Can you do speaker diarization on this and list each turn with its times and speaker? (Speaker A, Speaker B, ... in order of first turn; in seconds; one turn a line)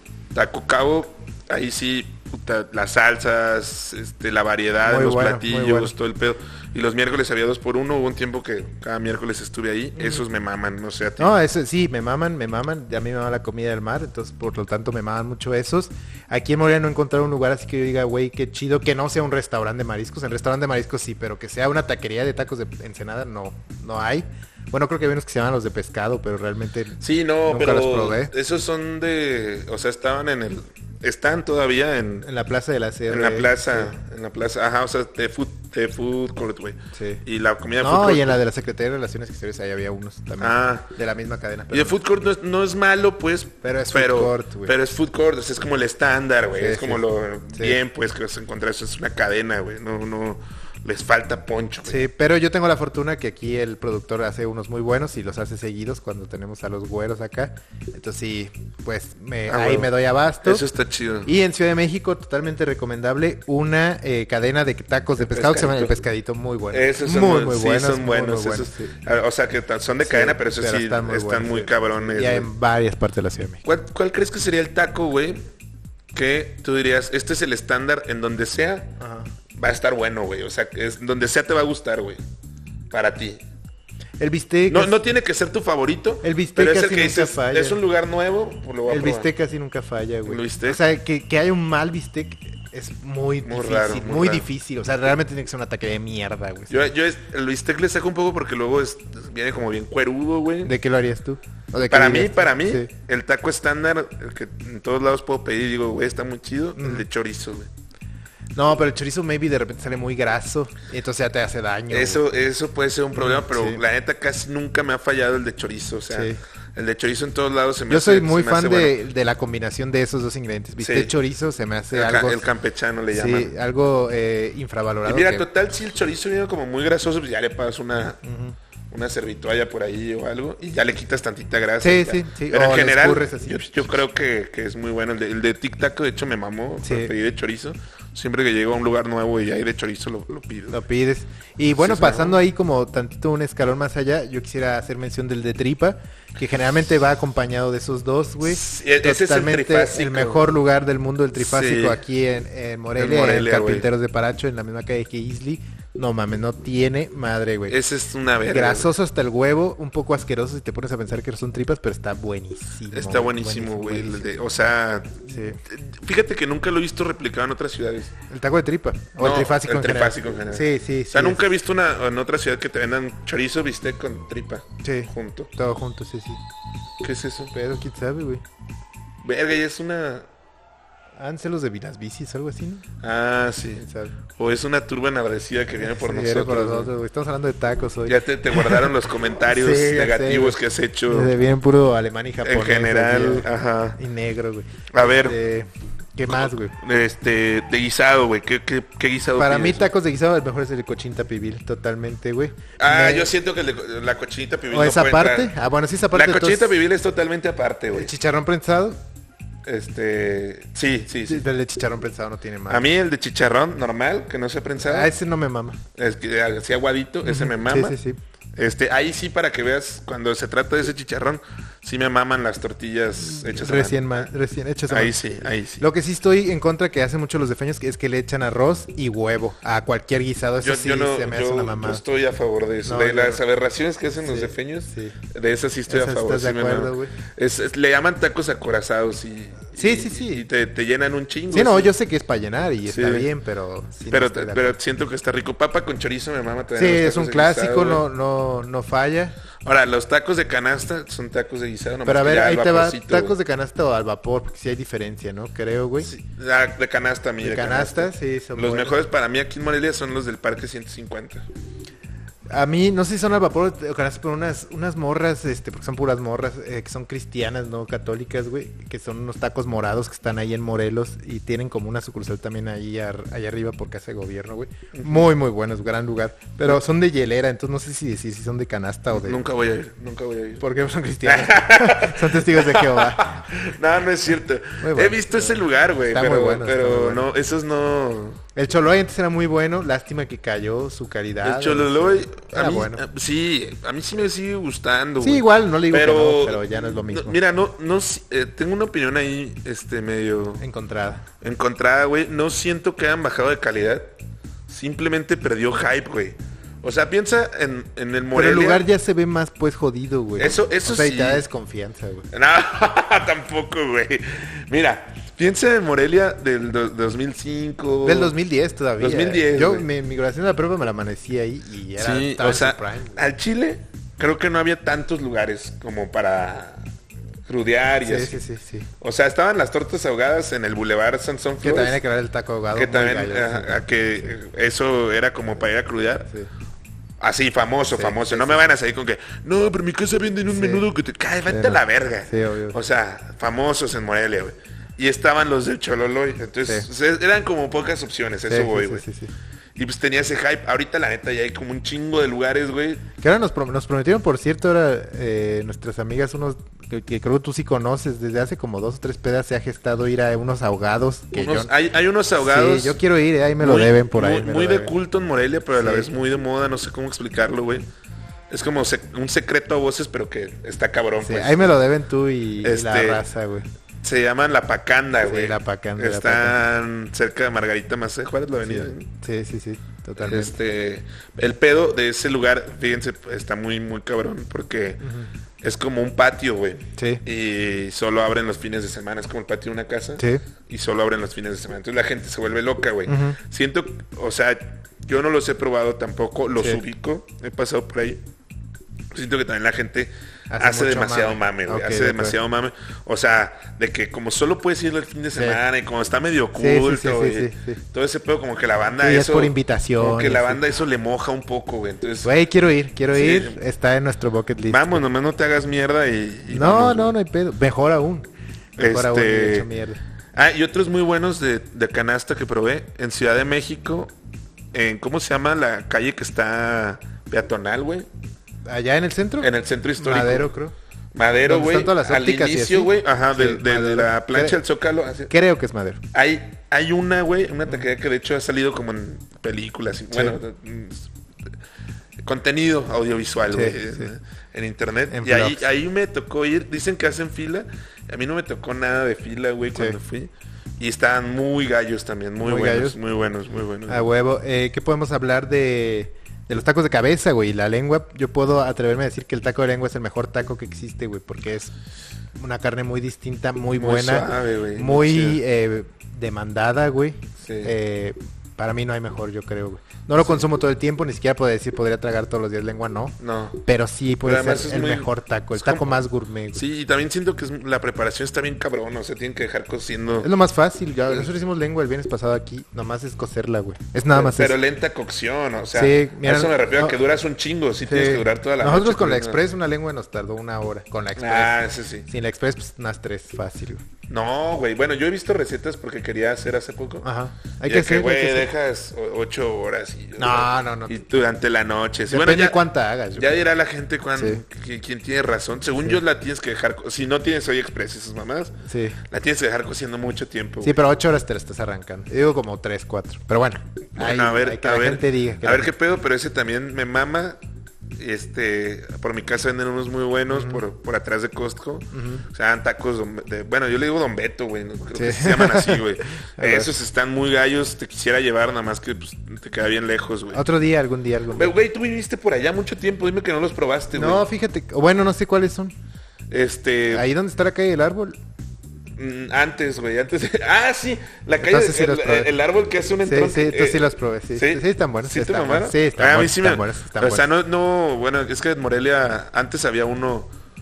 Speaker A: 0.3-11.3
Speaker B: 4.8-5.9
Speaker B: 10.0-10.2
Speaker B: 11.2-28.3
Speaker A: 27.0-32.3
Speaker B: 32.2-33.9
Speaker A: 33.1-38.4
Speaker B: 36.9-37.2
Speaker B: 37.8-42.0
Speaker A: 40.4-40.9
Speaker A: 41.7-52.0
Speaker B: 43.6-44.8
Speaker B: 46.6-47.8
Speaker B: 51.9-60.6
Speaker A: 59.5-59.9
Speaker A: 60.4-61.3
Speaker B: 61.2-69.0
Speaker A: 65.2-65.9
Speaker A: 66.7-72.5
Speaker B: 70.0-73.6
Speaker A: 73.6-75.5
Speaker A: 76.1-78.9
Speaker B: 79.0-79.3
Speaker A: 79.5-82.2
Speaker A: 82.9-83.4
Speaker B: 84.2-85.0
Speaker A: 84.7-89.3
Speaker B: 86.2-87.8
Speaker B: 88.9-96.8
Speaker A: 90.3-90.8
Speaker A: 93.4-94.5
Speaker A: 96.7-100.7
Speaker B: 100.6-102.9
Speaker A: 101.9-107.7
Speaker B: 106.8-107.0
Speaker B: 108.5-112.2
Speaker A: 111.9-119.0
Speaker B: 113.2-113.8
Speaker B: 116.1-116.4
Speaker B: 117.9-122.4
Speaker A: 120.8-121.1
Speaker A: 121.9-123.5
Speaker B: 123.1-125.5
Speaker A: 125.0-128.2
Speaker B: 128.2-128.6
Speaker A: 128.9-140.8
Speaker B: 131.8-133.9
Speaker B: 136.8-137.1
Speaker B: 140.7-157.8
Speaker A: 141.8-142.4
Speaker A: 148.4-150.5
Speaker A: 151.4-152.0
Speaker A: 153.0-153.9
Speaker A: 157.7-158.9
Speaker B: 158.5-164.3
Speaker A: 162.9-168.1
Speaker B: 165.3-165.6
Speaker B: 168.3-171.4
Speaker A: 169.2-175.5
Speaker B: 174.8-176.4
Speaker A: 177.0-177.5
Speaker B: 177.5-178.4
Speaker A: 179.2-180.3
Speaker B: 181.2-182.8
Speaker A: 183.0-186.9
Speaker B: 183.8-184.2
Speaker B: 185.8-188.9
Speaker A: 188.1-191.3
Speaker B: 189.5-196.7
Speaker A: 192.4-194.0
Speaker A: 194.9-195.4
Speaker A: 196.3-199.9
Speaker B: 199.4-203.3
Speaker A: 202.8-205.5
Speaker B: 204.7-206.7
Speaker A: 206.1-208.1
Speaker B: 207.9-209.0
Speaker A: 209.7-211.4
Speaker B: 211.3-212.9
Speaker A: 212.7-215.1
Speaker B: 214.8-215.8
Speaker A: 215.9-218.0
Speaker B: 217.2-218.2
Speaker A: 218.6-224.3
Speaker B: 223.2-225.2
Speaker A: 224.9-225.8
Speaker B: 225.8-232.0
Speaker A: 230.6-241.9
Speaker B: 232.8-233.4
Speaker B: 234.2-235.2
Speaker B: 235.9-237.1
Speaker B: 239.7-240.5
Speaker B: 241.5-244.8
Speaker A: 242.8-243.3
Speaker A: 244.1-248.0
Speaker B: 246.8-249.4
Speaker A: 249.6-253.4
Speaker B: 252.1-256.1
Speaker A: 256.0-261.5
Speaker B: 257.4-259.0
Speaker B: 262.5-279.4
Speaker A: 274.9-275.2
Speaker A: 279.1-280.6
Speaker B: 280.6-283.4
Speaker A: 281.2-288.4
Speaker B: 284.8-287.3
Speaker B: 288.6-293.0
Speaker A: 291.4-300.6
Speaker B: 295.2-297.4
Speaker B: 300.6-301.2
Speaker A: 301.4-304.1
Speaker A: 304.7-308.9
Speaker B: 308.3-312.3
Speaker A: 310.4-311.4
Speaker A: 312.3-318.4
Speaker B: 318.0-323.2
Speaker A: 319.0-319.9
Speaker A: 322.0-326.9
Speaker A: 327.5-328.4
Speaker B: 328.0-328.9
Speaker A: 329.0-332.0
Speaker B: 331.6-333.9
Speaker A: 332.7-336.3
Speaker A: 337.2-349.1
Speaker B: 337.9-338.6
Speaker B: 340.5-340.9
Speaker B: 341.5-342.8
Speaker B: 348.5-349.3
Speaker A: 349.8-353.0
Speaker B: 353.2-361.7
Speaker A: 361.3-363.0
Speaker B: 362.4-364.9
Speaker A: 363.6-367.9
Speaker B: 365.7-366.1
Speaker A: 368.5-371.8
Speaker B: 371.2-373.7
Speaker A: 372.6-373.2
Speaker A: 374.0-379.1
Speaker B: 375.2-376.6
Speaker B: 378.6-380.5
Speaker A: 380.2-385.0
Speaker B: 385.0-385.3
Speaker A: 385.6-398.2
Speaker B: 387.0-387.2
Speaker B: 390.2-390.4
Speaker B: 393.1-393.4
Speaker B: 396.6-396.8
Speaker A: 399.1-412.3
Speaker B: 400.5-402.4
Speaker B: 406.6-407.8
Speaker B: 409.0-410.6
Speaker B: 412.2-415.0
Speaker A: 413.1-413.6
Speaker A: 414.7-417.1
Speaker B: 416.5-420.0
Speaker A: 418.8-419.7
Speaker A: 420.3-424.1
Speaker A: 424.7-428.1
Speaker B: 428.7-430.7
Speaker A: 429.4-430.5
Speaker A: 431.1-435.3
Speaker B: 431.4-434.6
Speaker B: 435.3-436.0
Speaker A: 436.1-441.1
Speaker B: 440.1-440.4
Speaker A: 442.2-454.1
Speaker B: 443.5-444.1
Speaker B: 445.1-445.7
Speaker B: 452.4-453.0
Speaker B: 453.9-461.7
Speaker B: 462.3-476.6
Speaker A: 463.8-465.4
Speaker A: 467.4-467.7
Speaker A: 473.2-473.6
Speaker A: 474.2-476.0
Speaker A: 476.5-480.3
Speaker B: 480.2-484.6
Speaker A: 484.1-489.4
Speaker B: 485.7-487.0
Speaker B: 487.9-493.9
Speaker A: 491.2-492.1
Speaker A: 494.1-497.1
Speaker B: 497.0-498.5
Speaker A: 497.6-502.6
Speaker B: 500.2-501.0
Speaker B: 502.1-503.4
Speaker A: 503.1-508.6
Speaker B: 504.1-504.4
Speaker B: 508.7-509.0
Speaker A: 509.1-510.8
Speaker B: 510.6-515.7
Speaker A: 514.0-517.4
Speaker A: 518.0-530.4
Speaker B: 520.3-520.6
Speaker B: 521.9-522.2
Speaker B: 525.0-526.7
Speaker B: 530.3-531.5
Speaker A: 531.3-534.2
Speaker B: 533.9-535.7
Speaker A: 536.3-537.1
Speaker B: 536.9-538.2
Speaker A: 539.0-550.3
Speaker B: 541.4-542.3
Speaker B: 543.0-547.3